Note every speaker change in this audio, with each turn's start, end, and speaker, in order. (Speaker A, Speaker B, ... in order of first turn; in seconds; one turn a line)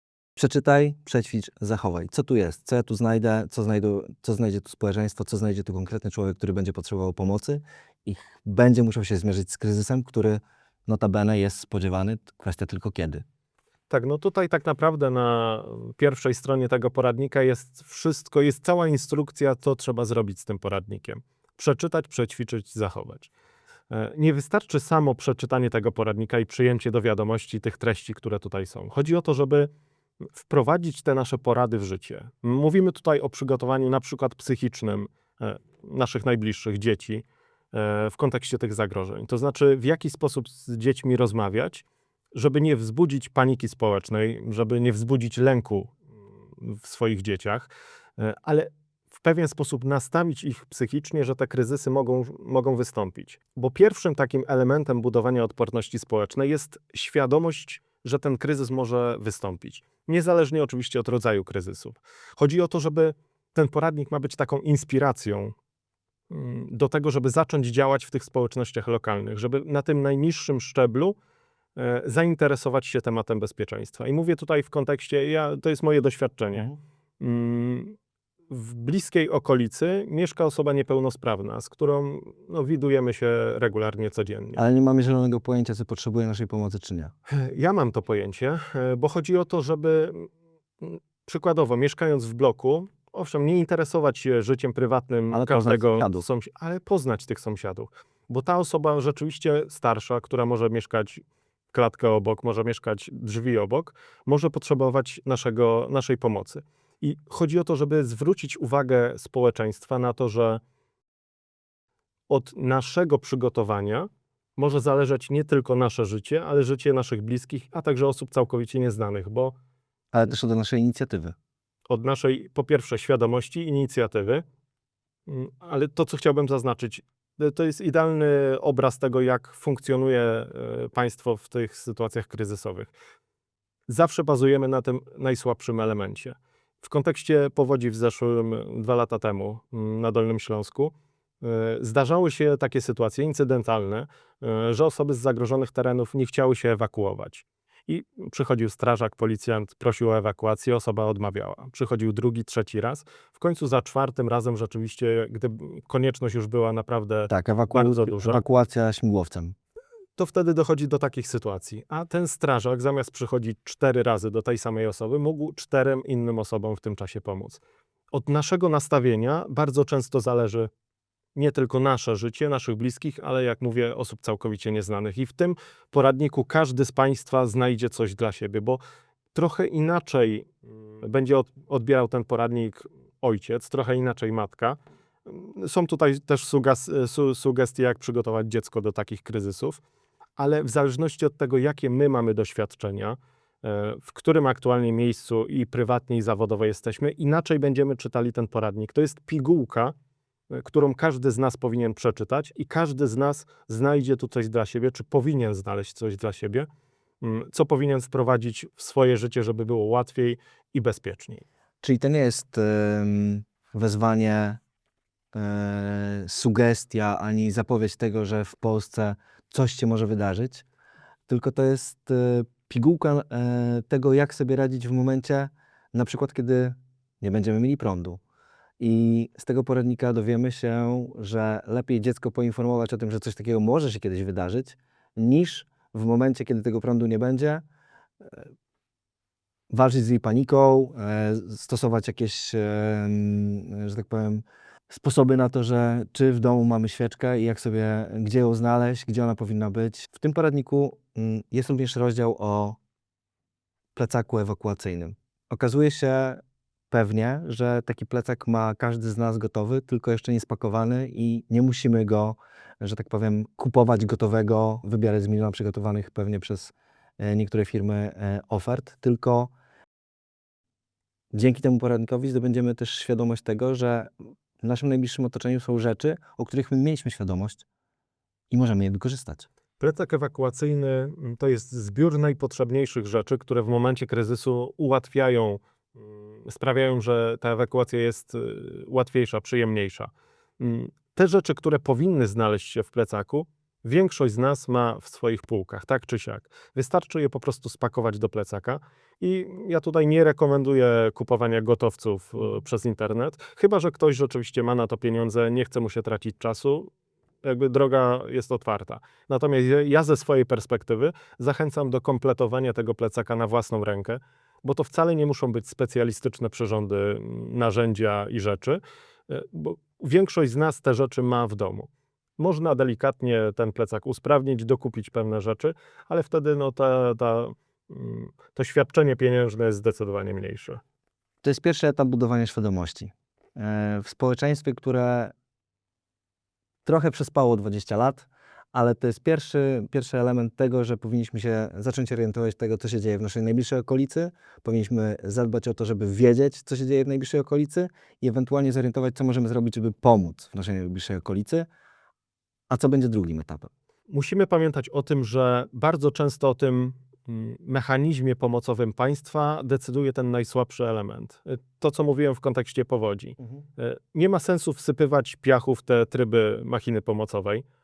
Speaker A: 0.4-13.2
Speaker B: 13.9-23.3
Speaker B: 23.9-29.7
Speaker B: 30.4-46.0
Speaker B: 46.6-65.5
Speaker B: 66.3-71.2
Speaker B: 71.8-78.0
Speaker B: 78.5-84.6
Speaker A: 84.6-87.1
Speaker B: 87.3-90.3
Speaker B: 90.8-110.6
Speaker A: 95.3-96.3
Speaker B: 112.3-119.5
Speaker A: 120.1-121.3
Speaker B: 121.9-124.4
Speaker B: 125.3-132.9
Speaker B: 133.9-158.4
Speaker A: 157.3-159.6
Speaker B: 160.2-167.6
Speaker B: 168.1-170.7
Speaker B: 171.3-178.8
Speaker B: 179.3-189.8
Speaker B: 190.4-199.9
Speaker B: 200.5-206.7
Speaker B: 207.2-211.4
Speaker A: 211.8-214.6
Speaker A: 215.3-220.7
Speaker A: 221.3-228.2
Speaker A: 228.8-237.6
Speaker A: 238.2-238.5
Speaker A: 239.7-252.8
Speaker A: 253.9-269.5
Speaker A: 271.3-274.1
Speaker A: 274.6-277.6
Speaker A: 278.5-279.5
Speaker B: 279.8-306.9
Speaker B: 307.4-330.8
Speaker A: 331.4-335.3
Speaker A: 336.9-351.7
Speaker A: 352.7-353.7
Speaker B: 354.1-367.6